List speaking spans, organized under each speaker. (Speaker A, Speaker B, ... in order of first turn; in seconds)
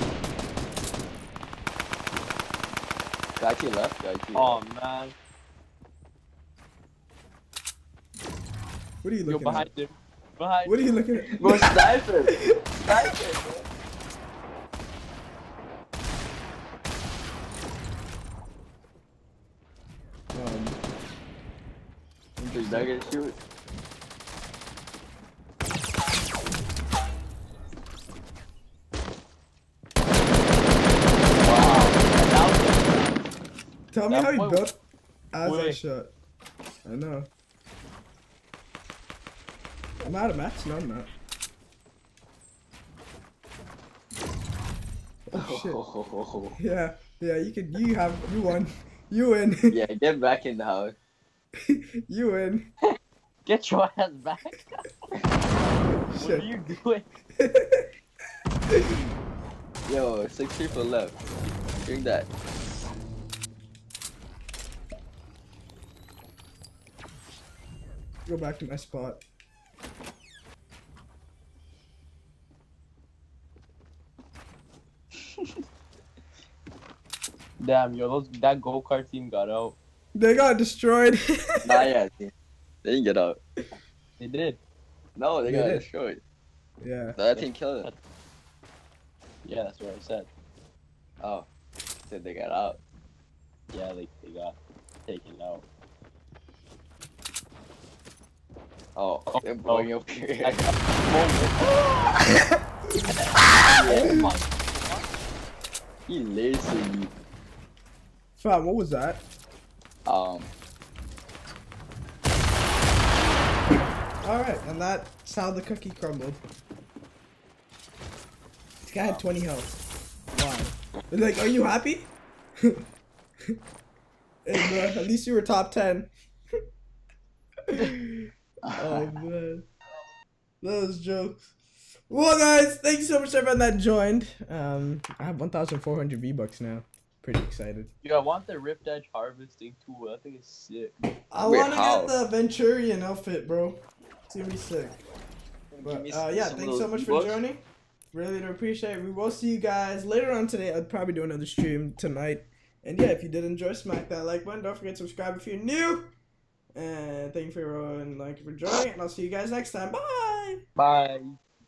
Speaker A: 3.4-4.6, 11.4-13.6, 22.5-23.4, 31.3-32.1, 45.3-46.6, 49.7-51.0, 59.9-61.1, 61.8-62.3, 75.2-75.5, 81.6-82.3, 82.8-83.4, 85.2-86.2, 87.1-87.9, 91.2-91.5, 92.1-92.8, 99.0-100.8, 103.7-104.2, 106.1-107.1, 110.0-110.5, 128.6-129.1, 141.4-142.1, 145.7-147.4
Speaker B: 4.3-5.1, 9.3-11.7, 31.6-33.2, 34.1-34.6, 35.4-35.8, 53.4-54.8, 56.1-57.0, 77.6-79.8, 84.2-84.6, 87.3-88.0, 89.4-90.3, 93.7-95.6, 99.3-99.9, 100.4-101.8, 103.7-105.2, 138.0-140.9, 160.8-161.4
Speaker C: 9.0-9.7, 10.7-11.8, 20.3-20.8, 22.4-22.9, 33.9-34.8, 35.3-36.1, 36.8-37.3, 40.0-41.1, 45.3-45.8, 46.6-49.8, 51.7-52.7, 56.1-56.5, 57.3-57.9, 58.7-59.0, 68.2-69.2, 80.1-81.9, 85.4-85.8, 86.8-87.2, 108.4-109.2, 114.2-116.4, 118.8-119.7, 120.3-122.8, 124.4-126.1, 127.7-129.7, 130.6-131.5, 132.1-137.9, 141.3-145.0, 145.8-156.1, 156.7-160.6